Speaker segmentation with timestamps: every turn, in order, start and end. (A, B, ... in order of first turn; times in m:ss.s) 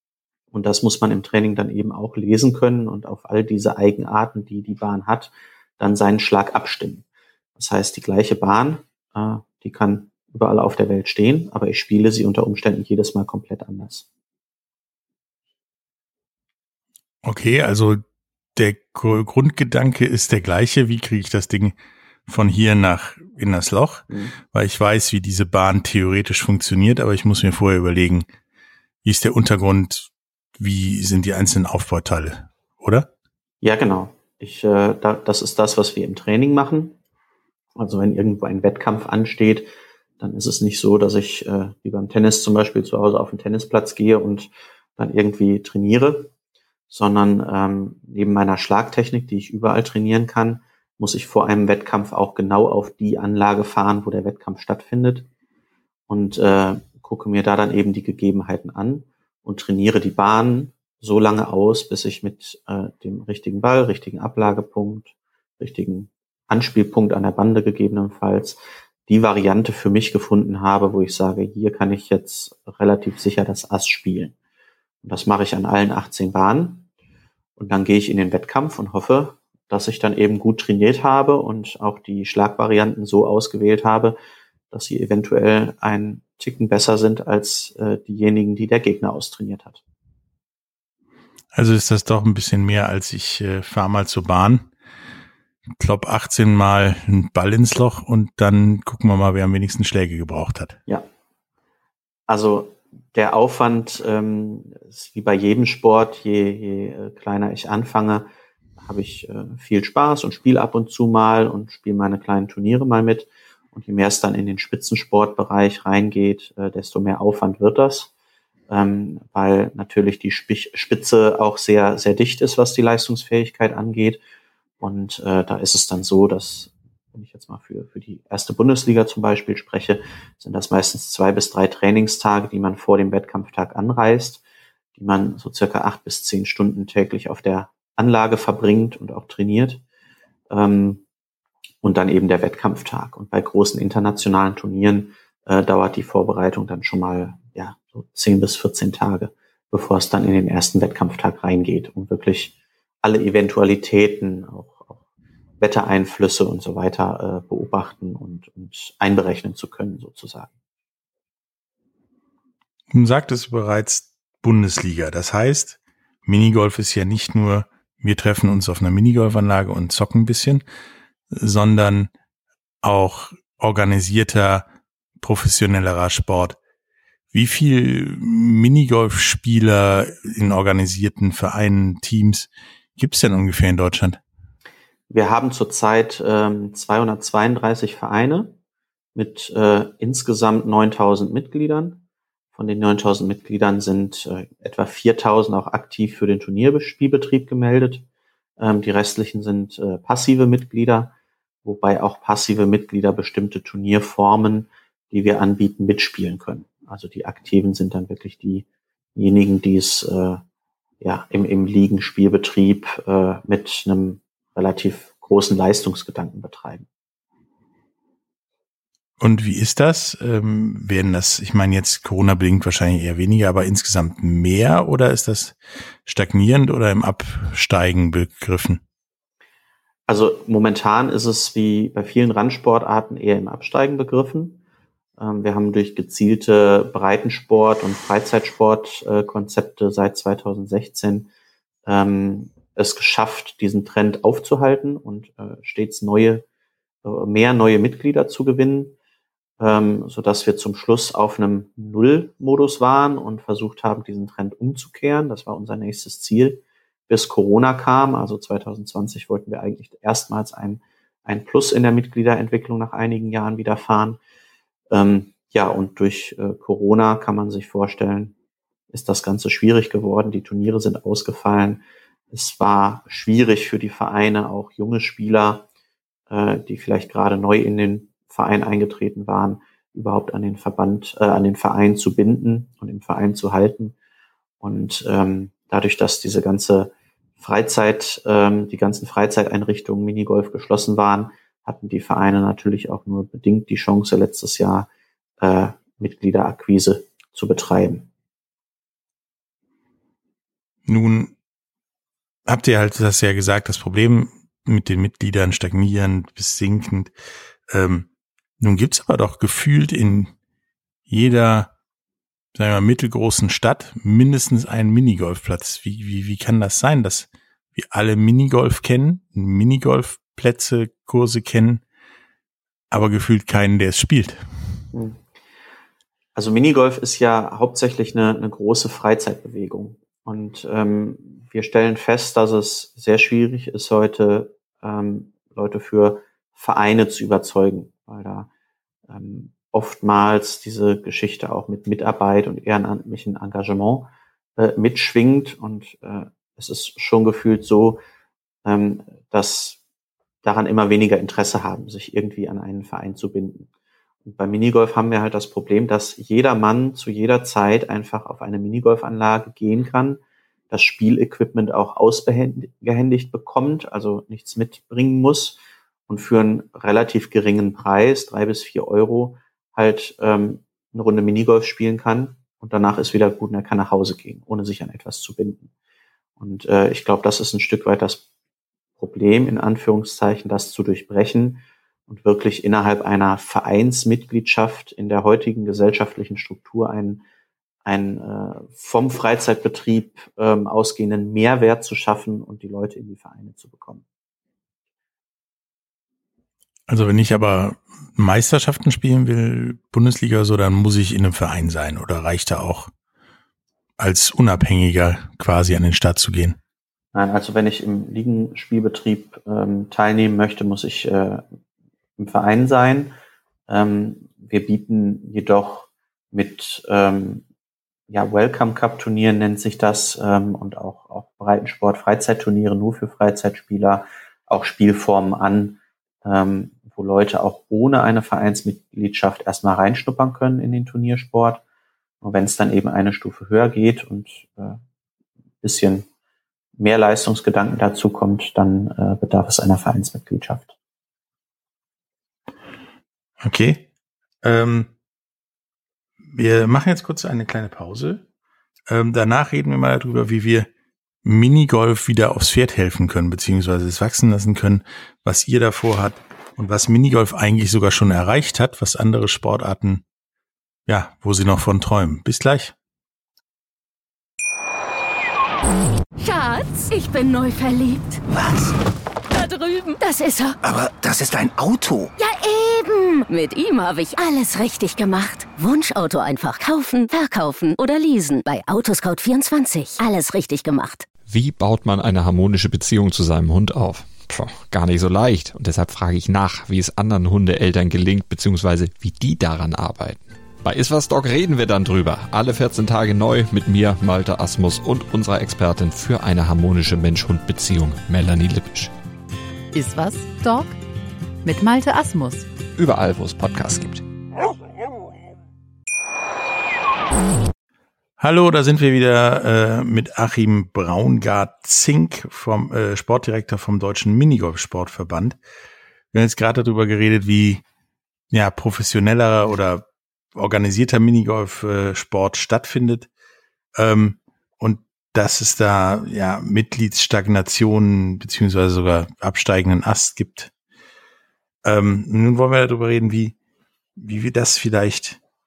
0:00.5-0:07.0 A
0:07.6-0:14.0 A
0:17.2-0:18.0 B
0:18.5-0:21.8 B
0:22.3-0:28.3 B
0:24.1-0:24.3 A
0:29.0-0:33.1 B
0:33.6-0:37.0 A
0:37.8-0:46.3 A
0:46.9-0:55.3 A
0:56.1-1:14.3 A
1:15.0-1:16.9 A
1:17.6-1:24.2 A
1:24.7-1:29.8 A
1:31.5-1:34.7 B
1:35.8-1:40.8 B
1:42.3-1:48.3 A
1:48.8-1:58.1 A
1:58.7-2:04.2 A
2:04.8-2:14.4 A
2:15.0-2:19.8 A
2:20.5-2:21.0 A
2:21.8-2:35.0 A
2:35.6-2:40.5 A
2:42.9-2:50.6 B
2:51.3-2:52.1 B
2:52.8-2:54.7 B
2:55.2-2:56.6 B
2:57.3-3:04.2 B
3:05.1-3:08.5 A
3:09.1-3:12.0 A
3:12.5-3:18.0 A
3:18.6-3:30.4 A
3:31.0-3:36.9 A
3:39.2-3:48.8 B
3:50.1-3:54.6 A
3:55.2-4:01.3 A
4:01.8-4:06.4 A
4:07.0-4:08.9 A
4:09.6-4:24.2 A
4:24.9-4:28.3 A
4:28.9-4:35.6 A
4:36.3-4:43.9 A
4:44.6-4:54.9 A
4:55.4-4:58.1 A
5:00.8-5:01.3 B
5:02.4-5:07.1 B
5:07.7-5:10.3 B
5:11.1-5:11.7 B
5:12.5-5:21.8 B
5:22.9-5:24.4 B
5:24.9-5:25.2 A
5:26.3-5:38.5 A
5:39.1-5:48.0 A
5:48.6-5:49.8 A
5:50.4-5:53.7 A
5:54.2-6:15.7 A
6:16.4-6:18.2 A
6:19.0-6:27.2 A
6:27.8-6:34.0 A
6:36.9-6:42.9 B
6:44.0-6:46.6 B
6:47.1-6:51.4 A
6:52.2-6:53.1 A
6:53.7-6:57.4 A
6:58.1-7:11.6 A
7:12.2-7:14.8 A
7:15.6-7:16.1 A
7:16.8-7:20.7 A
7:23.4-7:23.8 B
7:24.4-7:24.9 B
7:26.2-7:28.2 B
7:28.9-7:30.7 B
7:31.2-7:40.0 B
7:40.9-7:42.7 B
7:46.2-7:48.2 C
7:48.3-7:48.7 D
7:49.3-7:50.6 C
7:50.6-7:52.1 D
7:52.2-8:01.1 C
8:01.3-8:18.9 E
8:19.7-8:20.8 F
8:21.4-8:22.5 F
8:22.8-8:24.0 E
8:28.2-8:35.4 B
8:36.1-8:37.6 B
8:38.3-8:43.1 B
8:43.7-8:50.5 B
8:51.6-8:53.4 B
8:54.0-8:55.2 B